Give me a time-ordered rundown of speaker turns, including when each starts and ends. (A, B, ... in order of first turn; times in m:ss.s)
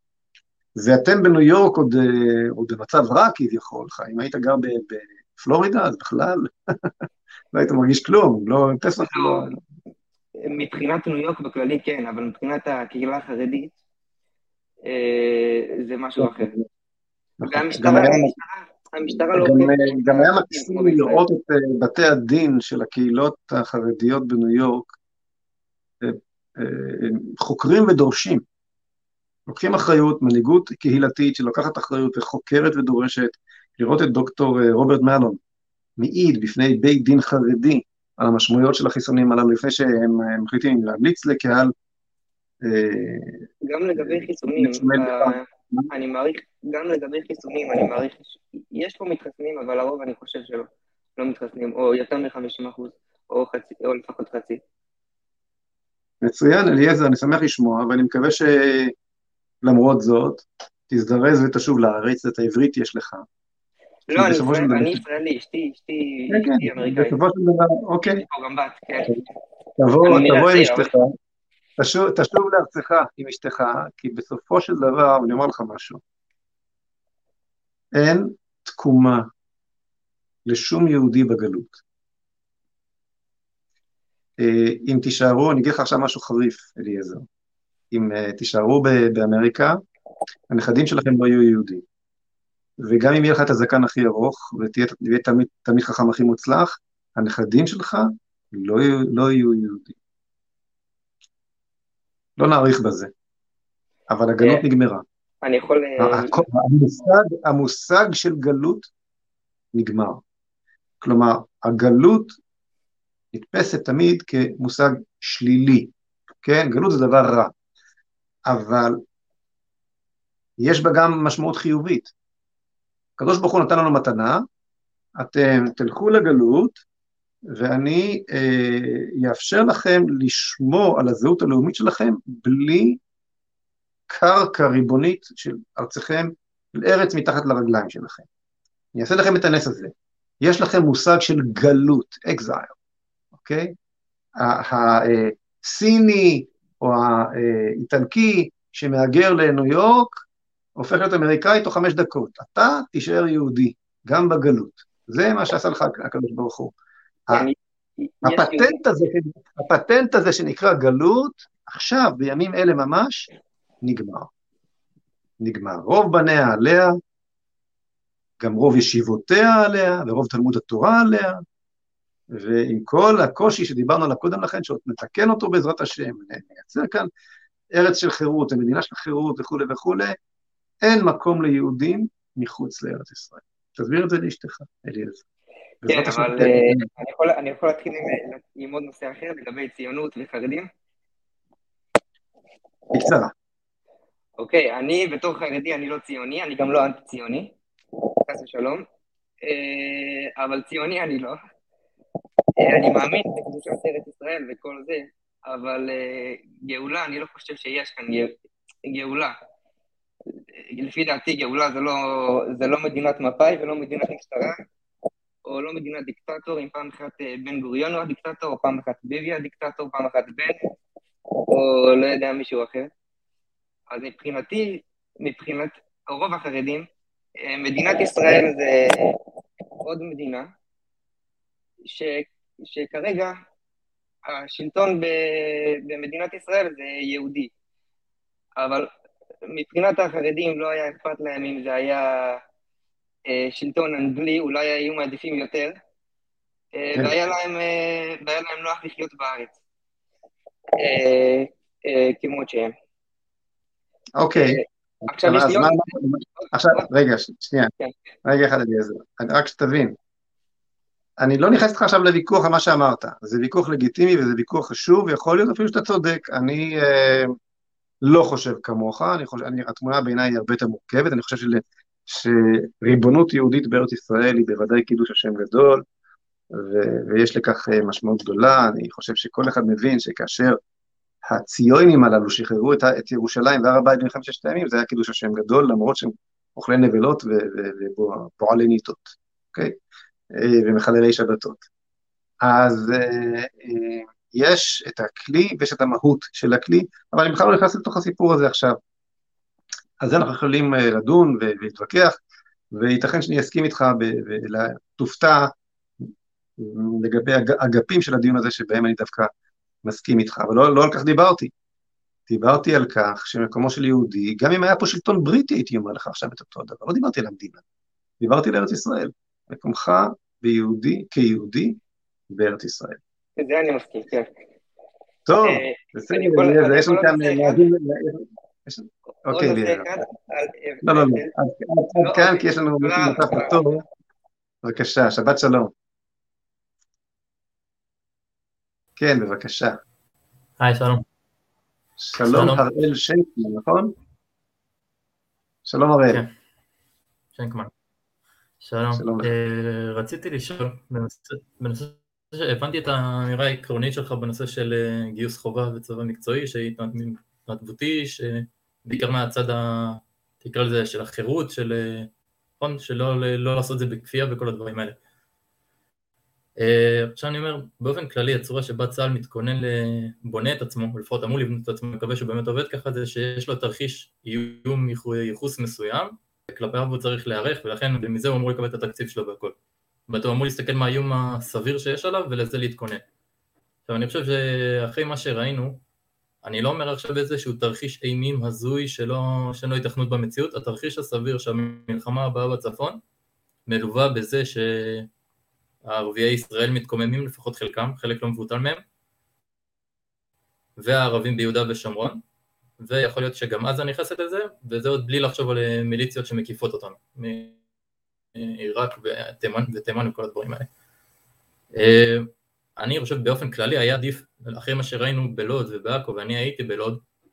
0:00.8-0:06.9 A
0:07.5-0:09.6 A
0:09.1-0:09.5 B
0:10.4-0:13.7 B
0:14.8-0:16.5 B
0:16.2-0:16.7 A
0:17.4-0:18.3 A
0:17.5-0:21.2 B
0:19.3-0:24.9 A
0:26.0-0:28.4 A
0:29.5-0:35.4 A
0:36.0-0:41.7 A
0:42.6-0:43.5 A
0:43.6-0:54.6 B
0:44.0-0:45.9 A
0:56.2-0:58.9 A
0:59.6-1:03.2 A
1:04.1-1:07.2 B
1:04.1-1:05.0 A
1:06.3-1:08.2 A
1:08.0-1:09.2 B
1:09.8-1:11.1 A
1:10.0-1:10.9 B
1:11.8-1:16.0 A
1:18.0-1:19.3 A
1:20.5-1:21.8 A
1:24.4-1:27.2 A
1:27.9-1:29.8 A
1:30.5-1:31.8 A
1:32.8-1:40.0 A
1:42.4-1:43.1 A
1:44.1-1:45.0 A
1:45.4-1:46.4 B
1:46.0-1:48.9 A
1:49.7-1:50.2 A
1:51.0-1:52.4 A
1:53.3-1:55.9 A
1:56.4-1:57.5 A
1:58.5-1:59.0 A
2:00.6-2:02.1 A
2:03.2-2:04.4 A
2:05.2-2:06.8 A
2:07.5-2:13.0 A
2:14.1-2:18.3 A
2:19.0-2:22.8 A
2:23.4-2:23.8 A
2:24.4-2:30.2 A
2:30.8-2:36.7 A
2:37.3-2:38.8 B
2:38.2-2:43.3 A
2:43.8-2:44.3 A
2:45.4-2:47.0 A
2:48.4-2:51.4 A
2:52.3-2:57.1 A
2:57.7-3:00.2 A
3:00.8-3:05.2 A
3:05.8-3:06.9 A
3:05.9-3:10.7 B
3:12.9-3:13.3 A
3:14.4-3:17.5 B
3:18.3-3:18.8 B
3:19.4-3:21.4 B
3:22.6-3:29.4 B
3:30.6-3:34.6 B
3:35.4-3:40.7 B
3:41.5-3:42.9 B
3:43.9-3:46.9 B
3:47.4-3:49.2 B
3:49.8-3:50.5 B
3:51.8-3:53.3 B
3:54.3-3:57.5 B
3:58.6-3:58.9 B
3:59.5-4:02.4 B
4:03.3-4:05.7 B
4:06.7-4:09.6 B
4:07.0-4:07.2 A
4:10.8-4:12.7 B
4:14.2-4:14.6 A
4:14.4-4:15.9 B
4:15.2-4:17.7 A
4:16.4-4:16.8 B
4:18.2-4:20.0 A
4:21.2-4:27.3 A
4:28.0-4:35.8 A
4:36.5-4:40.6 A
4:41.3-4:49.8 A
4:50.4-4:51.6 A
4:52.4-4:58.8 A
5:00.0-5:02.2 A
5:02.7-5:05.5 A
5:06.6-5:09.3 A
5:09.8-5:11.5 A
5:12.3-5:17.6 A
5:18.2-5:21.8 A
5:22.3-5:23.0 A
5:23.4-5:24.3 B
5:25.3-5:29.9 A
5:25.4-5:27.6 B
5:29.3-5:31.3 B
5:30.8-5:33.8 A
5:32.0-5:33.7 B
5:34.6-5:35.7 A
5:39.0-5:39.8 A
5:40.6-5:41.0 C
5:42.0-5:43.9 A
5:42.2-5:42.6 C
5:45.7-5:46.2 A
5:47.4-5:47.7 C
5:48.6-6:05.0 C
5:48.9-5:49.3 A
6:06.6-6:19.6 C
6:20.1-6:23.0 C
6:23.9-6:25.8 C
6:26.4-6:33.0 C
6:33.7-6:35.1 C
6:35.8-6:38.8 C
6:40.8-6:42.2 C
6:42.8-6:47.6 C
6:48.4-6:50.7 C
6:51.7-6:57.0 C